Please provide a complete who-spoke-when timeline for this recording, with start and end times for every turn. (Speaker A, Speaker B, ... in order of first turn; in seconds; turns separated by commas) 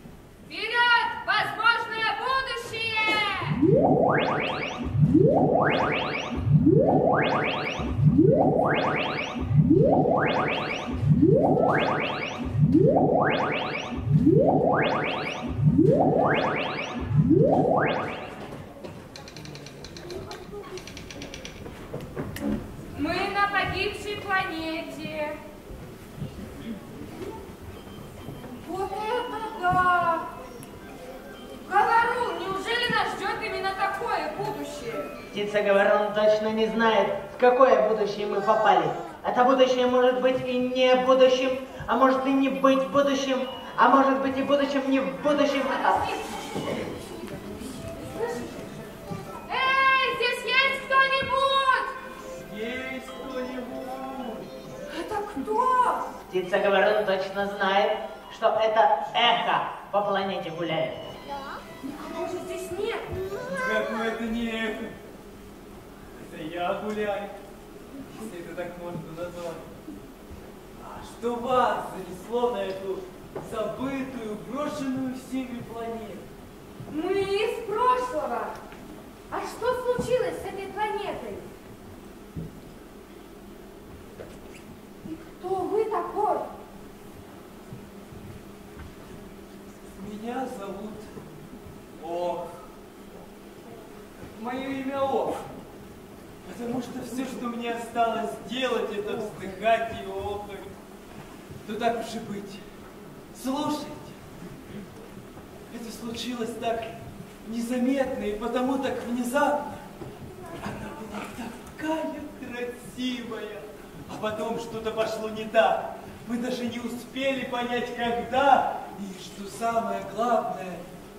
Speaker A: 0.5-3.6, Speaker A: 22.9-25.4, Speaker A: 28.6-30.2, Speaker A: 31.6-35.1, Speaker B: 35.3-46.0, Speaker A: 45.7-46.5, Speaker A: 47.9-48.7, Speaker A: 49.5-51.9, Speaker C: 52.4-54.5, Speaker A: 54.9-56.0, Speaker B: 56.3-61.0, Speaker A: 62.0-63.1, Speaker C: 63.5-64.9, Speaker C: 66.2-67.3, Speaker C: 68.1-69.6, Speaker C: 70.8-76.2, Speaker A: 76.9-78.5, Speaker A: 79.3-81.5, Speaker A: 85.1-86.5, Speaker C: 90.0-91.1, Speaker C: 92.0-92.6, Speaker C: 94.3-95.4, Speaker C: 96.4-100.7, Speaker C: 101.6-102.6, Speaker C: 103.3-104.2, Speaker C: 105.7-106.9, Speaker C: 107.5-109.8, Speaker C: 110.6-120.8